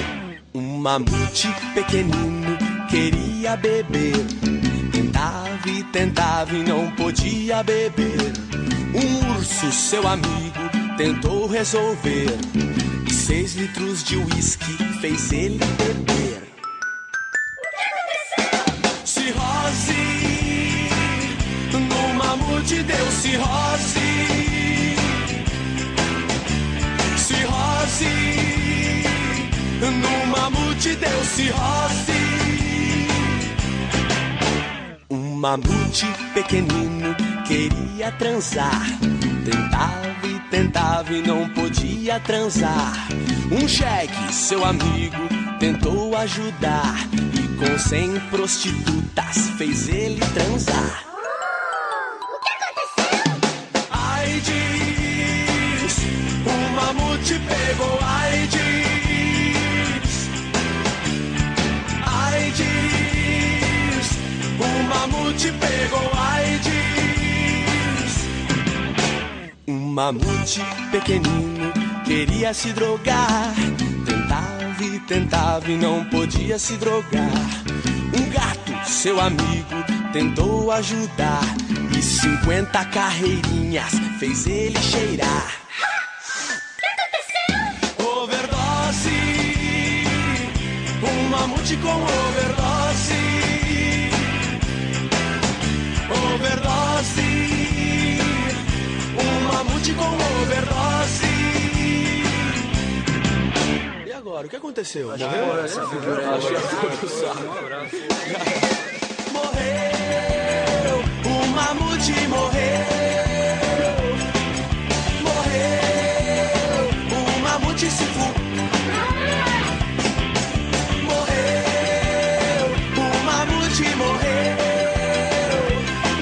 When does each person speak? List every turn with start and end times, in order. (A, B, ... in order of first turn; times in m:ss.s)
0:00.5-0:12.5 A
0:13.0-0:16.5 A
0:19.0-0:25.3 A
0:27.1-0:33.4 A
0:35.1-0:51.0 A
0:53.9-1:00.3 A
1:02.0-1:08.3 A
1:09.6-1:25.6 A
1:27.9-1:34.4 A
1:36.0-1:38.6 A
1:39.1-1:42.6 A
1:44.0-1:48.7 A
1:49.2-1:54.2 A
1:55.2-1:58.5 A
2:01.0-2:05.9 A